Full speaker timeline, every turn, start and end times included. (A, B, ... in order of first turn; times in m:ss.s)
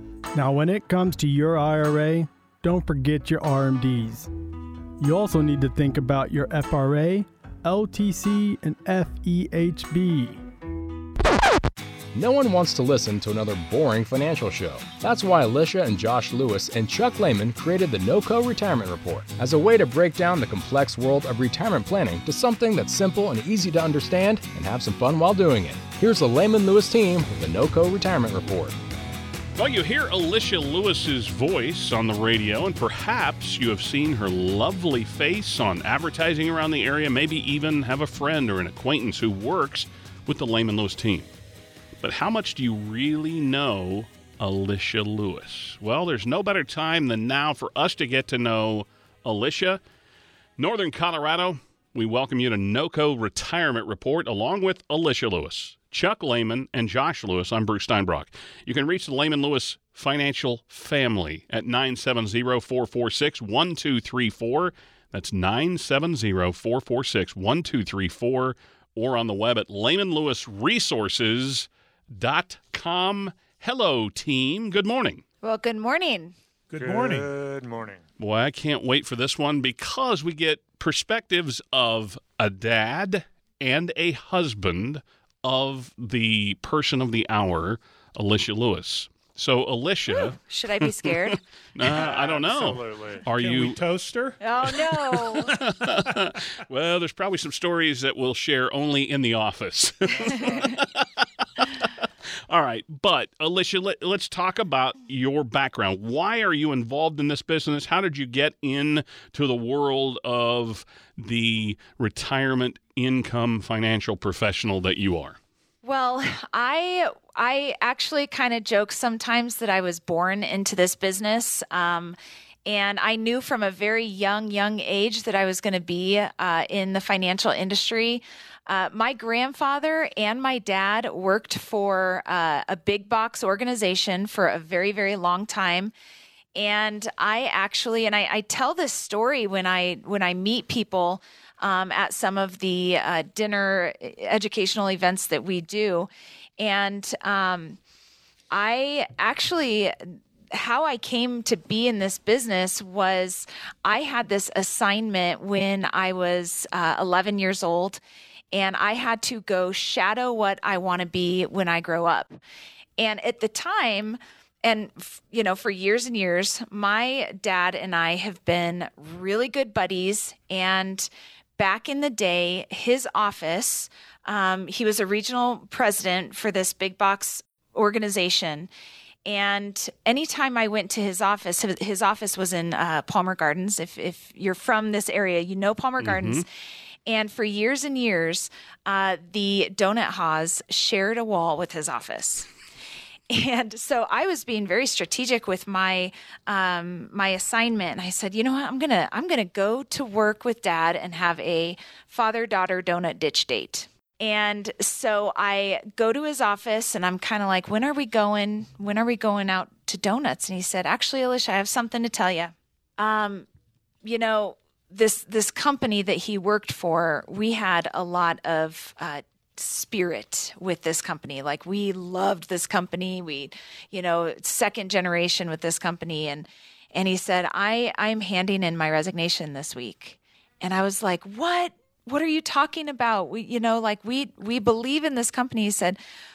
0:00.3-0:04.3 A
0:05.0-0:10.4 A
0:12.1-0:28.8 B
0:29.5-0:41.3 C
0:42.0-0:49.8 C
0:50.6-1:15.2 C
1:15.4-1:16.3 D
1:16.7-1:17.3 E
1:16.8-1:18.0 F
1:18.2-1:33.8 C
1:30.4-1:31.4 D
1:31.8-1:33.2 F
1:33.3-1:35.4 E
1:34.4-1:35.5 D
1:35.4-1:41.0 C
1:41.6-1:41.9 C
1:42.5-1:55.4 C
1:55.8-2:15.9 D
2:16.5-2:27.8 D
2:28.5-2:38.0 D
2:38.5-2:42.4 D
2:43.0-2:58.7 D
2:59.2-3:06.4 D
3:06.0-3:06.4 C
3:07.1-3:12.5 D
3:13.3-3:33.5 D
3:34.0-3:56.0 D